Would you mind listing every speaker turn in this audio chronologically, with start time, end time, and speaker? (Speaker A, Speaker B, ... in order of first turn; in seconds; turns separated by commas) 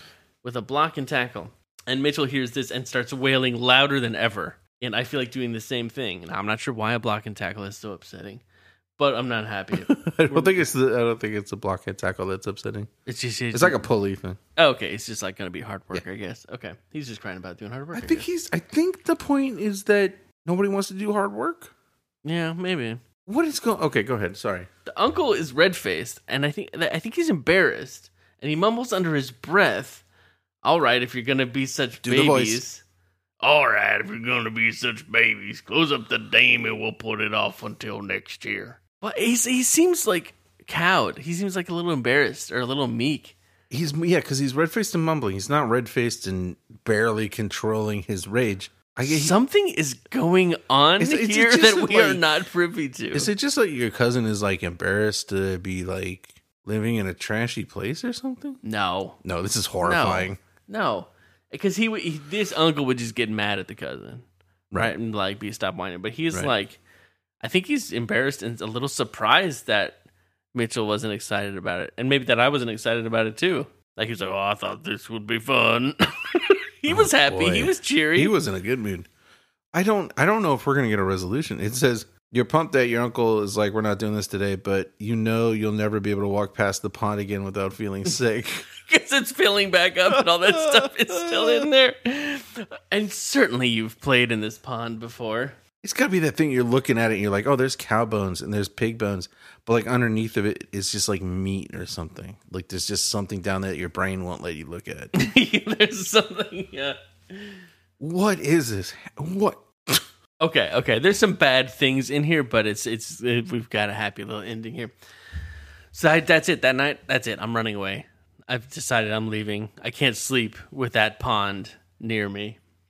Speaker A: 0.4-8.4, Speaker A: 9.0-10.6, Speaker B: 9.8-12.9, Speaker A: 13.1-13.9, Speaker B: 13.5-14.4, Speaker A: 14.6-18.3, Speaker B: 17.9-21.7, Speaker A: 22.2-23.0, Speaker B: 23.3-24.7, Speaker A: 24.9-30.0, Speaker A: 30.6-32.8, Speaker B: 32.0-32.6, Speaker A: 33.4-43.4, Speaker B: 43.7-49.4, Speaker A: 49.1-53.3, Speaker B: 51.0-52.2, Speaker B: 53.1-58.6, Speaker A: 58.6-59.2, Speaker B: 59.2-60.4, Speaker A: 59.8-66.8, Speaker A: 67.4-70.0, Speaker A: 70.5-78.3, Speaker B: 76.9-79.1, Speaker B: 79.7-88.7, Speaker A: 88.9-95.6, Speaker B: 90.1-91.7, Speaker B: 95.8-105.1, Speaker A: 105.1-107.6, Speaker B: 108.0-110.0, Speaker A: 110.4-114.9, Speaker A: 115.9-122.6